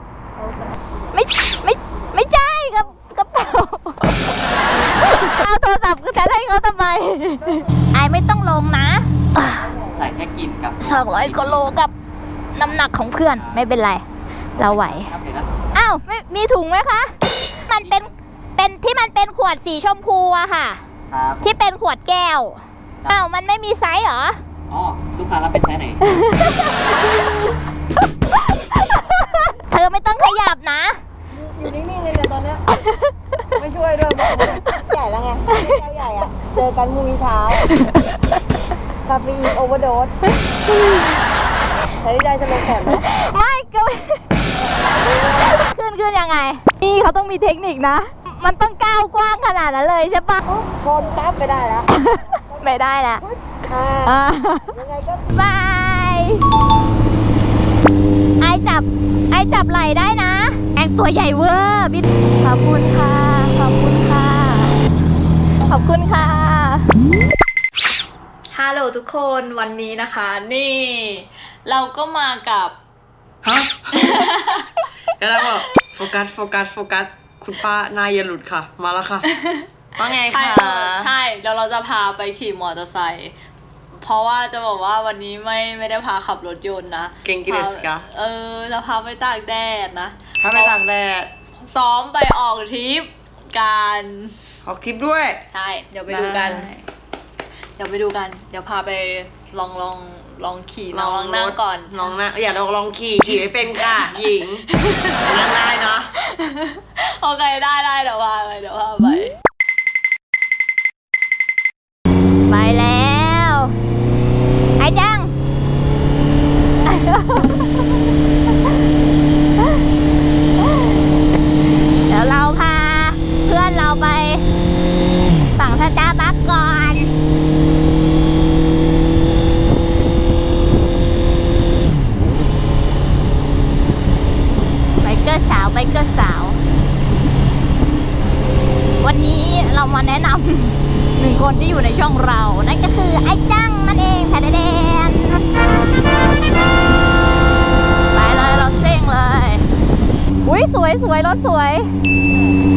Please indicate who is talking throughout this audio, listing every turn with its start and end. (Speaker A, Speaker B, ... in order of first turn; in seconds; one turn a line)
Speaker A: 0.3-1.1
Speaker B: 1.1-9.7
Speaker A: 7.4-7.7
Speaker A: 9.5-10.2
Speaker C: 9.9-11.7
Speaker B: 10.8-11.9
Speaker B: 12.5-14.0
Speaker C: 13.2-13.7
Speaker C: 14.6-15.5
Speaker B: 14.6-15.1
Speaker B: 15.7-20.8
Speaker C: 17.8-18.1
Speaker C: 21.1-21.5
Speaker B: 21.4-24.4
Speaker C: 24.7-26.0
Speaker B: 26.0-27.1
Speaker B: 28.8-31.0
Speaker A: 31.3-32.6
Speaker A: 33.5-37.6
Speaker B: 35.5-35.8
Speaker B: 37.7-38.2
Speaker A: 39.0-40.2
Speaker B: 40.3-41.2
Speaker A: 42.0-43.0
Speaker B: 42.9-44.2
Speaker A: 44.6-45.6
Speaker B: 45.3-50.4
Speaker A: 50.4-55.3
Speaker B: 51.9-53.2
Speaker B: 54.0-54.8
Speaker B: 55.3-56.4
Speaker B: 58.4-64.8
Speaker B: 65.7-66.9
Speaker D: 68.5-72.8
Speaker E: 73.4-74.3
Speaker D: 73.9-74.7
Speaker E: 75.2-79.2
Speaker D: 79.2-83.3
Speaker E: 80.0-81.1
Speaker D: 84.0-90.8
Speaker E: 87.2-88.0
Speaker E: 90.4-91.3
Speaker D: 91.6-94.3
Speaker E: 94.6-95.5
Speaker D: 95.5-96.8
Speaker E: 96.1-96.7
Speaker D: 97.8-102.2
Speaker E: 100.9-104.7
Speaker D: 103.8-105.5
Speaker E: 105.2-106.1
Speaker D: 106.1-109.3
Speaker B: 112.5-113.7
Speaker B: 114.8-115.3
Speaker B: 116.9-117.8
Speaker B: 122.1-124.4
Speaker B: 125.5-127.1
Speaker B: 135.0-136.6
Speaker B: 139.0-145.5
Speaker B: 148.1-149.6
Speaker B: 150.4-151.9